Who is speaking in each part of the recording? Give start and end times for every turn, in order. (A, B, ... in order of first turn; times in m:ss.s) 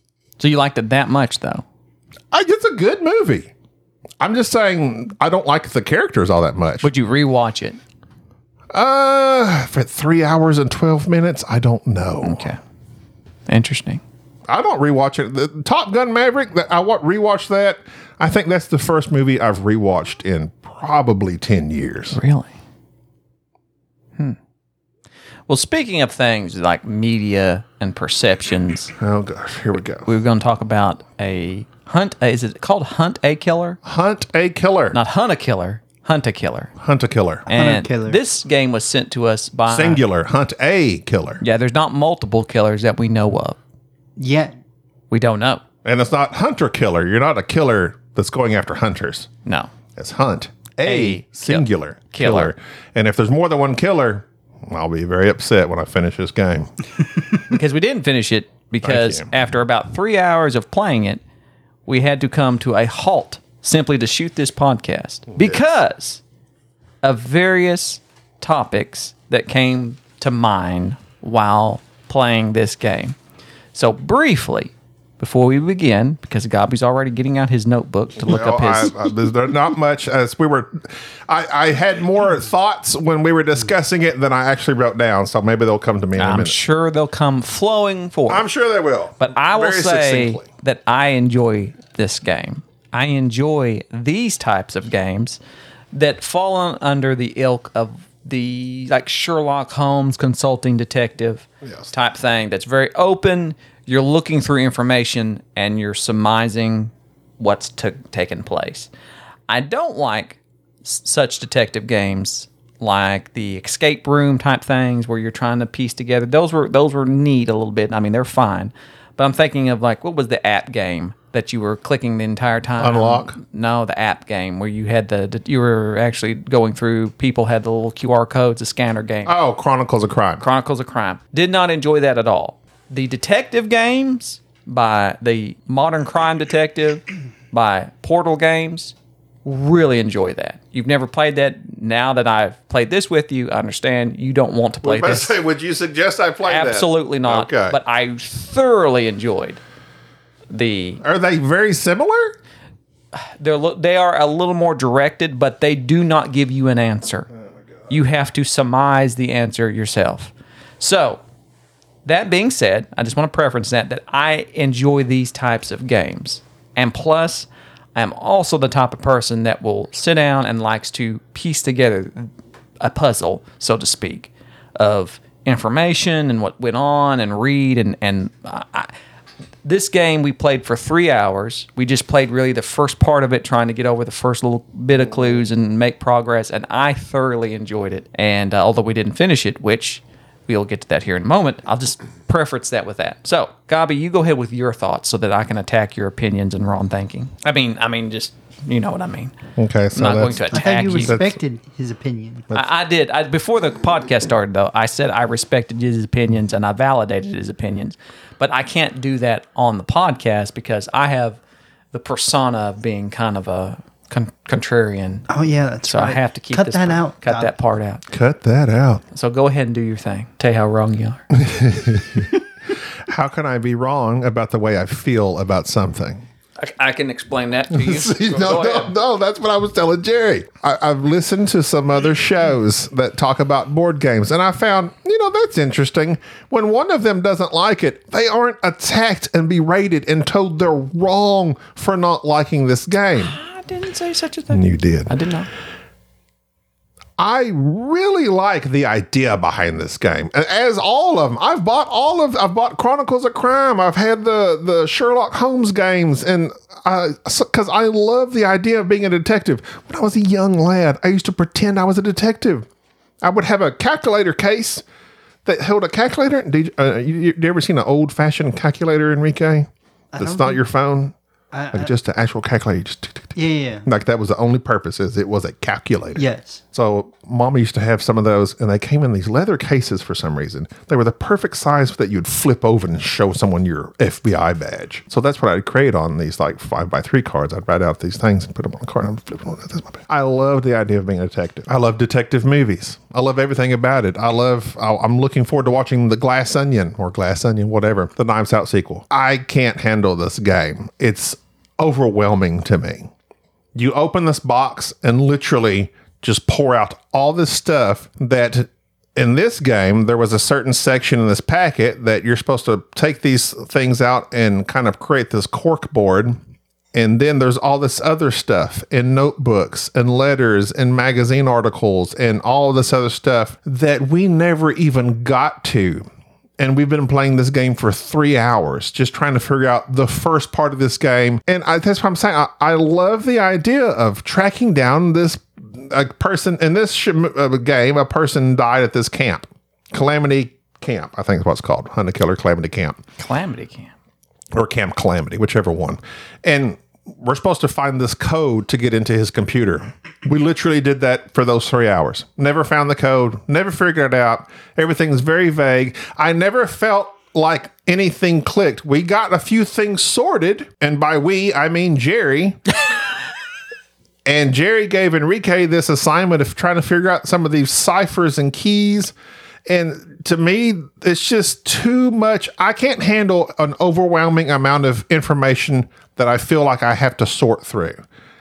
0:00.4-0:01.6 A
0:02.3-0:03.5 B
0:04.2-0:06.9 B
0:06.8-0:07.8 A
0:08.7-0:12.5 B
0:12.2-0:12.6 A
0:13.5-0:14.0 A
0:14.5-0:22.2 B
0:22.1-0:22.5 A
0:25.5-0:28.9 A
0:29.0-0:30.1 B
0:30.0-0:33.8 A
0:33.8-0:35.0 B
0:34.9-0:36.7 A
0:36.8-0:37.5 B
0:37.5-0:40.0 A
0:37.5-0:38.2 C
0:39.7-0:41.4 B
0:41.4-0:43.6 A
0:44.2-0:44.5 C
0:45.1-0:45.6 A
0:45.8-0:49.3 B
0:49.4-0:49.7 A
0:50.0-0:56.7 B
0:50.8-0:52.5 A
0:57.5-1:01.2 A
0:58.8-0:59.3 B
1:01.9-1:06.2 A
1:07.0-1:13.2 A
1:13.7-1:19.0 A
1:18.2-1:26.6 B
1:26.2-1:28.4 A
1:28.3-1:30.5 B
1:29.2-1:35.4 A
1:35.9-1:48.9 A
1:41.6-1:41.9 B
1:49.5-2:09.4 A
2:02.8-2:03.4 B
2:09.2-2:10.4 B
2:10.4-2:18.9 A
2:19.4-2:25.4 A
2:24.8-2:27.8 B
2:26.4-2:29.6 A
2:30.5-2:31.0 A
2:31.0-2:32.4 B
2:33.1-2:37.3 A
2:37.9-2:41.2 A
2:42.0-2:58.9 A
2:59.6-3:19.3 A
3:19.6-3:21.4 B
3:19.9-3:21.2 A
3:20.5-3:22.5 C
3:22.5-3:31.4 A
3:31.9-3:35.3 A
3:35.3-3:37.5 C
3:35.8-3:38.0 A
3:38.1-3:39.0 B
3:39.1-3:41.2 A
3:41.3-3:42.4 B
3:43.1-3:46.2 B
3:46.6-3:48.9 A
3:47.7-4:03.4 B
4:03.2-4:05.5 A
4:04.5-4:05.1 B
4:07.2-4:22.7 B
4:23.2-4:24.8 B
4:25.4-4:31.1 B
4:30.1-4:30.6 C
4:31.5-4:31.9 C
4:31.7-5:03.1 B
4:33.4-4:33.9 C
4:36.2-4:36.6 C
5:03.8-5:16.4 B
5:16.9-5:26.1 B
5:26.6-5:43.0 B
5:43.2-5:43.9 A
5:44.5-6:02.6 B
6:04.2-6:09.2 B
6:09.7-6:18.0 B